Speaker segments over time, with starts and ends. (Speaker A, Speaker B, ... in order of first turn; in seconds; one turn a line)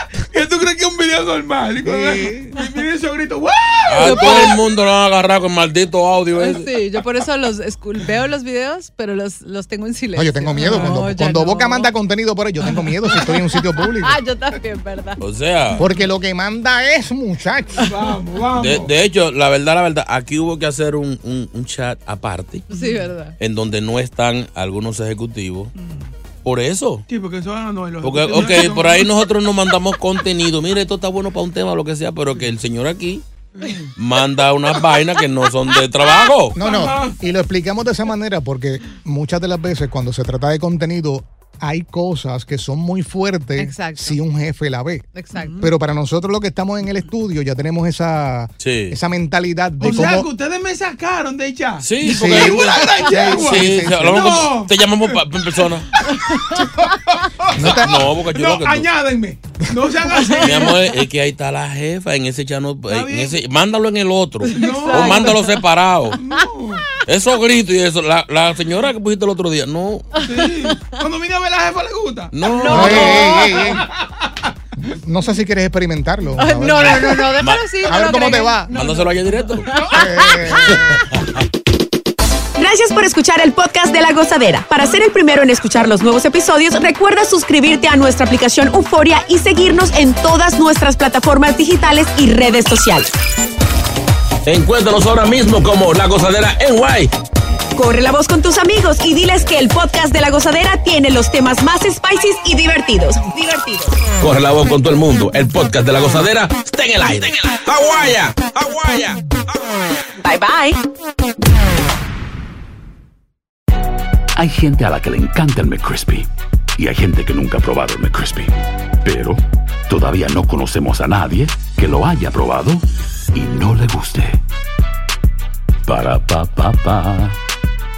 Speaker A: 0.2-4.5
Speaker B: 1.8-2.5
Speaker C: 3.9-6.7
Speaker D: 3.9-4.6
Speaker D: 6.4-11.9
Speaker B: 10.2-14.2
Speaker D: 12.6-15.2
Speaker C: 15.2-15.8
Speaker B: 15.8-17.9
Speaker D: 17.8-18.1
Speaker A: 17.8-18.9
Speaker C: 18.5-22.7
Speaker D: 22.7-23.4
Speaker A: 22.7-23.1
Speaker C: 23.4-25.7
Speaker A: 25.8-26.1
Speaker C: 26.4-27.1
Speaker A: 27.1-29.1
Speaker C: 28.0-33.2
Speaker A: 33.6-33.9
Speaker C: 34.0-36.6
Speaker B: 36.6-50.3
Speaker A: 36.6-37.2
Speaker D: 43.6-44.2
Speaker D: 45.1-45.7
Speaker A: 45.3-45.7
Speaker C: 48.6-49.0
Speaker A: 49.8-55.0
Speaker C: 51.8-55.9
Speaker B: 52.0-54.5
Speaker D: 55.9-56.7
Speaker A: 56.6-60.8
Speaker B: 57.5-58.1
Speaker C: 57.6-58.9
Speaker D: 60.1-61.0
Speaker C: 60.4-66.2
Speaker A: 62.9-63.4
Speaker D: 64.5-65.6
Speaker A: 64.5-65.4
Speaker A: 66.2-66.8
Speaker D: 66.2-66.5
Speaker C: 67.1-70.1
Speaker D: 70.1-71.0
Speaker A: 70.2-74.5
Speaker C: 72.3-73.4
Speaker D: 72.5-73.7
Speaker B: 72.7-73.9
Speaker B: 74.8-77.2
Speaker D: 76.4-80.8
Speaker C: 77.4-77.9
Speaker B: 77.9-78.7
Speaker C: 78.7-79.7
Speaker B: 79.9-81.1
Speaker C: 80.7-81.2
Speaker E: 82.6-93.1
Speaker C: 94.5-97.1
Speaker E: 97.8-104.0
Speaker C: 104.2-109.2
Speaker E: 110.2-110.8
Speaker F: 114.4-124.4
Speaker F: 125.9-127.4